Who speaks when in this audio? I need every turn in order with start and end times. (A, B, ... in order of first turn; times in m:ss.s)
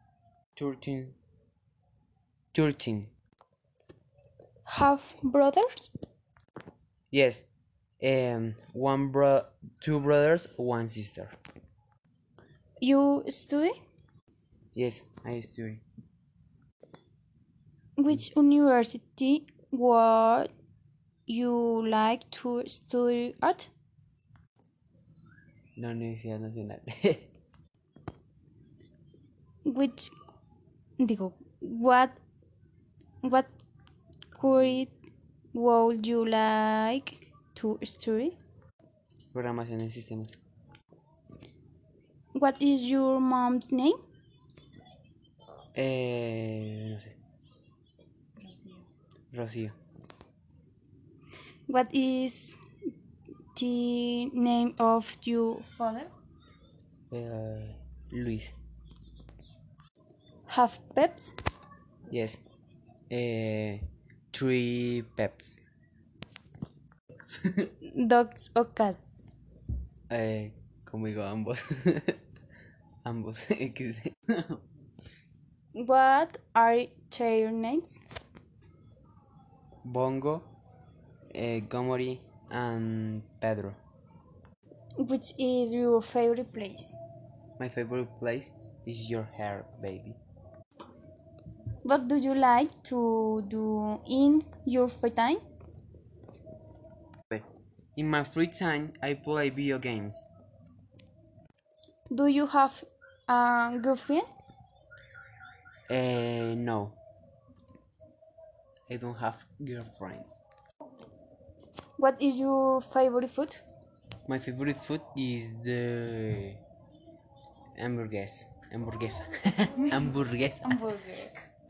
0:00.6-0:01.2 A
0:02.5-0:03.1 A
0:04.6-0:05.8 B
0:07.1-0:07.4 A
0:08.0-0:11.3 A
0:12.8-0:13.7 B
0:14.7-0:15.8 A
0:18.0-0:20.5 B
0:21.3-0:23.7 B
0:25.8-0:27.3 A
0:29.6-0:30.1 B
0:31.0-0:32.2 B
0:33.2-0:33.5 B
0:34.3-0:34.9 B
0:35.5-0:38.4 B
0:39.3-0:40.4 A
0:42.3-0:44.0 B
0:45.7-0:47.2 A
0:48.4-0:48.8 B
0:49.3-0:49.8 A
0:51.7-0:52.5 B
0:53.5-0:56.1 B
0:57.1-0:58.5 A
1:00.5-1:01.4 B
1:02.1-1:02.4 A
1:03.1-1:05.6 A
1:07.8-1:09.0 B
1:10.1-1:12.2 A
1:13.0-1:14.6 A
1:15.8-1:18.0 B
1:19.8-1:20.5 A
1:21.3-1:23.8 A
1:25.0-1:27.0 B
1:27.6-1:30.2 A
1:31.8-1:35.4 B
1:37.3-1:40.3 A
1:42.1-1:44.3 B
1:45.9-1:47.0 A
1:48.9-1:50.3 A
1:52.0-1:53.6 B
1:54.2-1:56.6 A
1:57.8-2:00.8 A
2:00.6-2:01.3 B